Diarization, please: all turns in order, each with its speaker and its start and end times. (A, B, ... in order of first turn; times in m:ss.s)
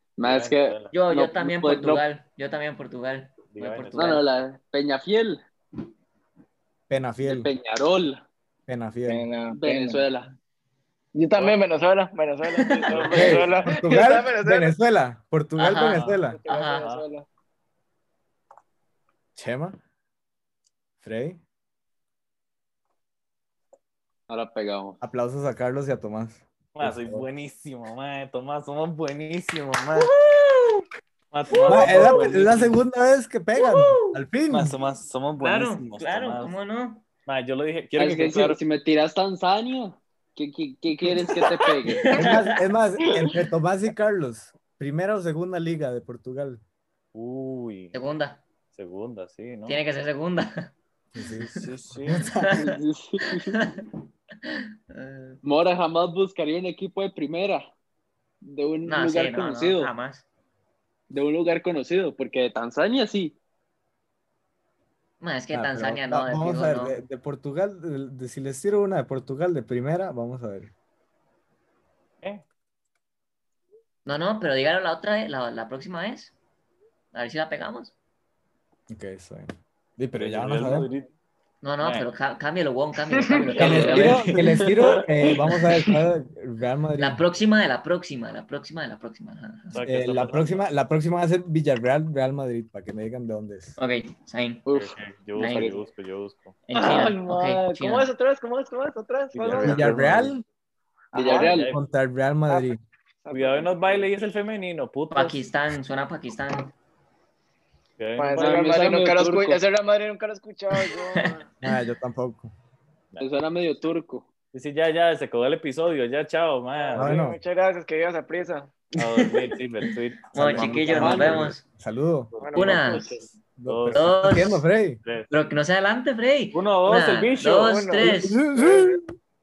0:00.2-0:02.0 A
0:00.2-0:00.9 B
0:00.9-0:04.2 C
0:03.5-0:04.2 B
0:03.9-0:05.4 A
0:06.9-0:07.5 D
0:07.2-0:08.2 A
0:08.7-0:09.3 D
0:09.1-0:10.0 E
0:09.5-0:10.3 A
0:11.1-0:14.8 E
0:12.9-0:13.4 B
0:12.9-0:13.5 A
0:13.1-0:16.4 D
0:15.6-0:17.0 C
0:16.3-0:17.2 E
0:19.3-0:19.8 D
0:21.0-0:21.4 D
0:24.3-0:25.0 A
0:25.0-0:27.2 D
0:26.7-0:30.1 B
0:30.0-0:30.8 C
0:31.3-0:32.7 B
0:31.5-0:32.2 C
0:31.7-0:34.7 D
0:33.6-0:34.2 C
0:34.5-0:36.5 B
0:35.4-0:37.0 C
0:37.2-0:38.6 B
0:38.0-0:42.2 A
0:41.8-0:42.5 C
0:42.1-0:46.6 D
0:43.1-0:43.4 E
0:47.1-0:48.0 B
0:47.9-0:48.4 C
0:48.7-0:49.8 B
0:49.6-0:50.7 C
0:51.1-0:52.6 D
0:51.4-0:51.6 C
0:51.6-0:52.3 B
0:52.2-0:52.7 C
0:52.5-0:53.6 A
0:53.5-0:53.8 C
0:54.9-0:55.4 C
0:55.4-0:57.6 A
0:58.4-0:59.9 A
0:58.8-1:00.2 C
1:01.1-1:03.4 A
1:05.2-1:07.0 C
1:05.5-1:10.7 D
1:14.0-1:16.3 C
1:17.1-1:17.9 C
1:18.9-1:20.9 D
1:20.2-1:21.1 B
1:21.6-1:24.6 C
1:21.8-1:22.1 B
1:23.2-1:23.7 E
1:23.6-1:27.2 D
1:23.6-1:25.0 B
1:27.0-1:29.8 C
1:29.7-1:30.6 B
1:29.8-1:33.8 D
1:33.8-1:34.6 C
1:34.6-1:35.8 A
1:34.7-1:36.6 B
1:35.3-1:35.7 C
1:36.7-1:38.1 C
1:36.7-1:40.0 E
1:39.3-1:40.3 B
1:39.6-1:40.4 D
1:41.1-1:41.7 A
1:41.1-1:41.6 E
1:41.2-1:41.8 B
1:41.7-1:42.8 D
1:43.2-1:44.1 E
1:43.3-1:45.4 B
1:45.1-1:46.7 C
1:48.0-1:48.6 B
1:48.2-1:51.4 E
1:48.3-1:49.6 A
1:50.7-1:51.4 C
1:51.6-1:52.5 D
1:53.2-1:54.3 A
1:54.5-1:57.1 B
1:56.8-1:58.7 E
1:56.9-1:57.4 D
1:59.0-2:01.5 B
1:59.0-2:01.6 C
2:00.4-2:02.3 D
2:01.0-2:01.4 A
2:02.3-2:04.2 B
2:02.4-2:03.2 E
2:02.5-2:03.1 C
2:03.6-2:05.0 D
2:03.9-2:04.6 C
2:05.0-2:05.3 B
2:05.3-2:08.4 C
2:06.5-2:08.9 B
2:07.6-2:09.0 E